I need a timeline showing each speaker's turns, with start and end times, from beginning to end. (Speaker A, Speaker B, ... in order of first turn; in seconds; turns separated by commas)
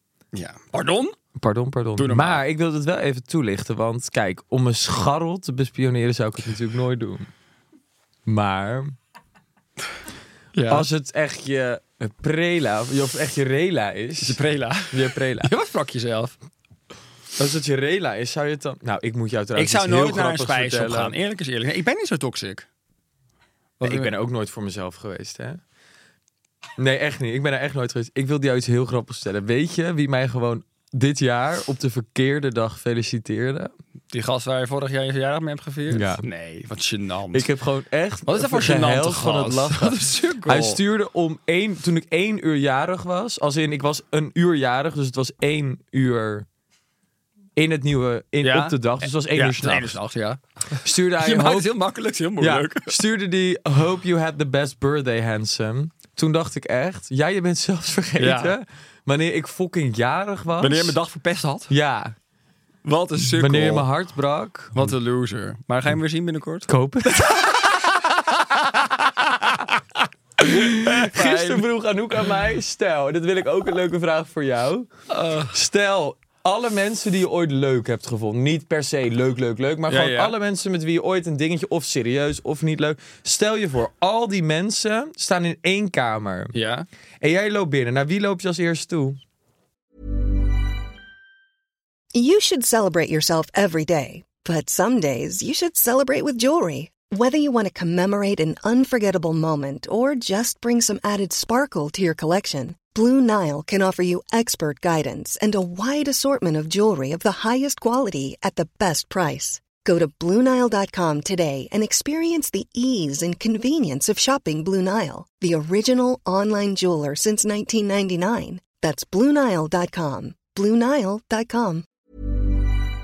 Speaker A: 0.3-1.1, Speaker B: 1.4-7.3, Speaker A: 2.0-2.4, Speaker B: 8.3-9.0, Speaker A: 10.5-10.9, Speaker B: 10.7-14.4, Speaker A: 14.2-16.4, Speaker B: 14.9-15.5, Speaker B: 17.4-21.1, Speaker A: 19.5-22.6, Speaker A: 23.8-24.1, Speaker B: 23.8-25.6, Speaker B: 26.8-33.7, Speaker A: 34.1-37.5, Speaker B: 35.9-36.2, Speaker B: 37.3-46.5, Speaker A: 38.2-40.8, Speaker B: 47.6-50.0, Speaker A: 48.4-53.0, Speaker B: 50.8-51.8, Speaker B: 52.4-61.0, Speaker A: 58.2-58.5, Speaker A: 60.6-61.7, Speaker B: 61.7-62.1, Speaker A: 62.8-63.9, Speaker B: 63.2-64.9, Speaker A: 64.8-68.2, Speaker B: 66.7-67.4, Speaker B: 70.4-74.9, Speaker A: 70.5-71.7, Speaker A: 75.1-75.5, Speaker B: 75.5-86.5, Speaker A: 79.9-80.3, Speaker A: 86.5-86.9, Speaker B: 87.2-89.2, Speaker C: 92.1-121.8